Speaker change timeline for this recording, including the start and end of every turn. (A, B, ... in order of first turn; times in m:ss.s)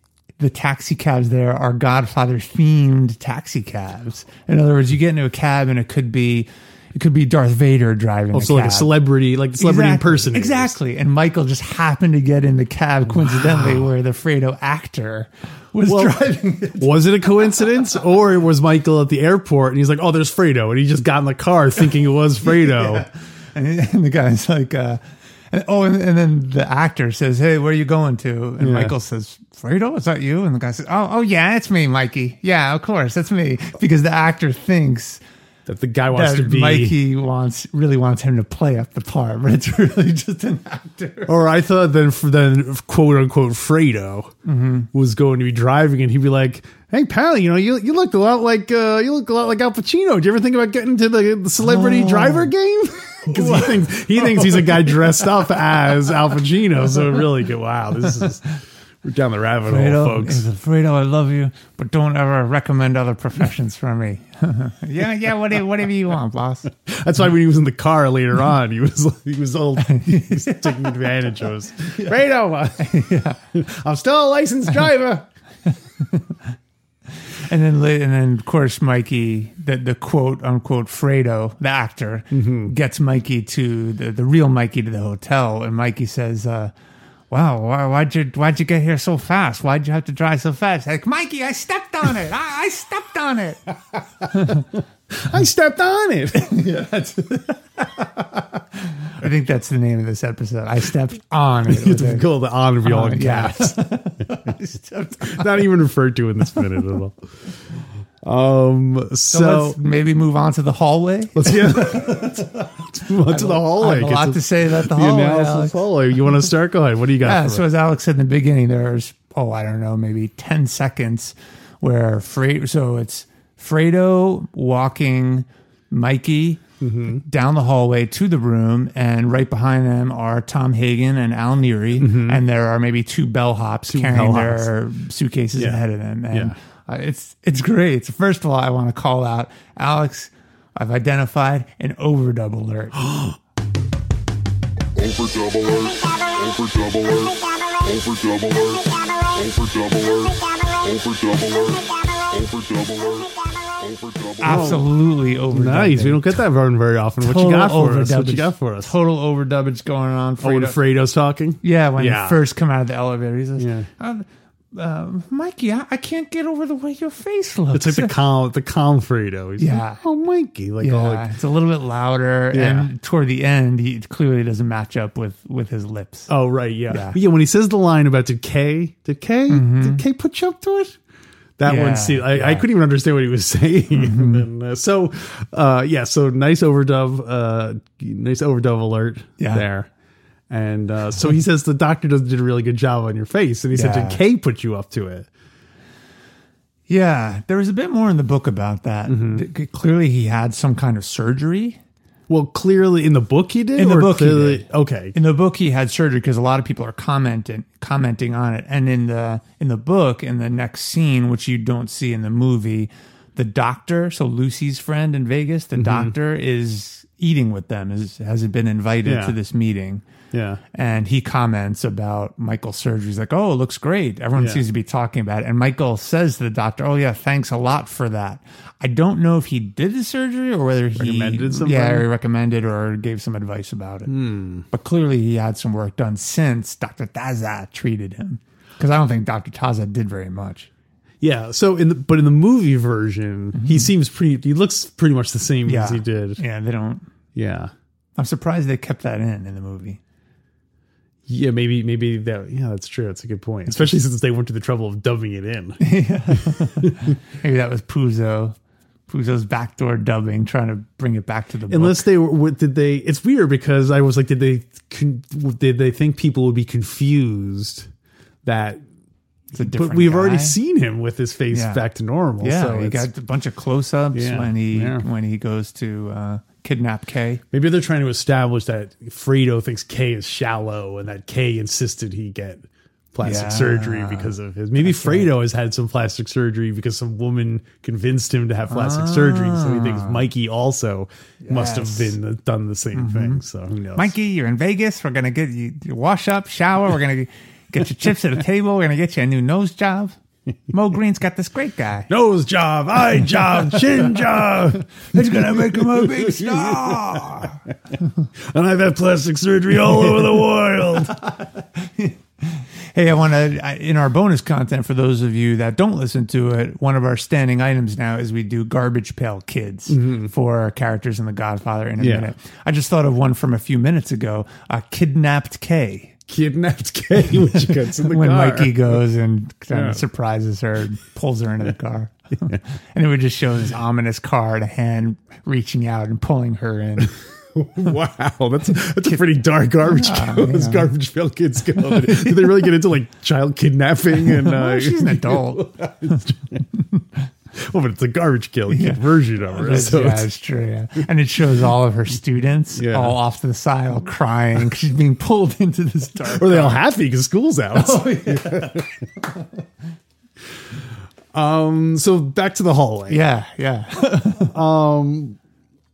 0:00.4-0:08.9 A
0:08.3-0:10.8 B
0:09.6-0:17.5 A
0:15.9-0:16.2 B
0:16.8-0:23.1 B
0:22.5-0:35.2 A
0:28.6-0:28.9 B
0:35.6-0:37.0 B
0:36.1-0:41.3 A
0:41.3-0:44.3 B
0:44.4-0:44.9 A
0:44.9-0:58.4 B
0:51.6-0:52.5 A
0:53.2-0:54.9 A
0:59.0-1:00.4 B
0:59.7-1:06.7 A
1:06.8-1:13.0 B
1:09.8-1:11.0 A
1:12.8-1:13.4 A
1:13.5-1:15.3 B
1:16.0-1:16.4 A
1:17.5-1:26.7 A
1:22.3-1:22.7 B
1:27.3-1:33.6 A
1:34.3-1:34.7 A
1:34.4-1:36.6 B
1:36.4-1:38.4 A
1:39.1-1:42.3 A
1:41.7-1:43.8 B
1:42.8-1:45.6 A
1:45.2-1:47.2 B
1:48.2-1:49.8 B
1:49.3-1:55.8 A
1:51.4-1:57.6 B
1:57.2-2:23.0 A
2:06.8-2:07.2 B
2:12.0-2:12.4 B
2:13.9-2:14.7 B
2:15.6-2:16.5 B
2:23.0-2:23.4 B
2:25.0-2:34.8 C
2:34.4-2:36.4 A
2:34.4-2:34.9 B
2:35.5-2:38.9 B
2:37.2-2:40.8 A
2:40.4-2:42.4 B
2:41.6-2:48.1 A
2:43.6-2:43.9 B
2:47.7-2:51.3 B
2:49.6-2:50.0 A
2:50.8-2:56.3 A
2:52.5-2:52.9 B
2:56.3-3:01.0 B
2:56.9-2:57.2 A
2:59.5-3:00.0 A
3:01.6-3:09.9 B
3:01.6-3:02.6 A
3:03.9-3:04.4 A
3:09.4-3:09.6 A
3:10.5-3:15.3 B
3:13.7-3:14.2 A
3:16.9-3:21.8 A
3:19.1-3:19.4 B
3:22.3-3:25.1 B
3:23.8-3:40.0 A
3:35.8-3:36.1 B
3:39.0-3:39.4 B
3:40.3-3:40.6 B
3:40.7-3:54.1 A
3:44.4-3:44.6 B
3:51.0-3:52.1 B
3:54.1-3:54.6 B
3:54.7-4:00.7 A
4:01.2-4:06.4 B
4:03.6-4:03.9 A
4:05.6-4:07.0 A
4:07.3-4:07.7 B
4:08.2-4:10.0 A
4:11.3-4:17.1 B
4:15.8-4:18.5 A
4:19.1-4:22.1 A
4:21.7-4:27.9 B
4:28.4-4:28.8 B
4:29.5-4:33.1 B
4:29.5-4:30.6 A
4:31.5-4:31.8 A
4:32.4-4:37.4 A
4:34.1-4:35.0 B
4:37.5-4:54.1 B
4:43.2-4:45.3 A
4:48.7-4:50.2 A
4:51.4-4:52.1 A
4:52.9-4:53.4 A
4:54.0-5:00.2 A
5:00.7-5:02.1 A
5:02.1-5:07.5 B
5:03.4-5:04.0 A
5:05.1-5:07.6 A
5:08.4-5:11.1 B
5:11.1-5:26.2 A
5:19.9-5:20.3 B
5:22.0-5:22.3 B
5:26.3-5:29.0 B
5:27.5-5:37.1 A
5:29.7-5:30.0 B
5:37.5-5:46.6 B
5:39.8-5:40.9 A
5:41.8-5:42.7 A
5:44.2-5:45.7 A
5:47.5-5:50.3 B
5:48.7-5:56.8 A
5:52.7-5:53.2 B
5:56.3-5:58.9 B
5:57.7-5:59.4 A
6:01.3-6:03.2 B
6:03.1-6:04.5 A
6:04.5-6:05.4 B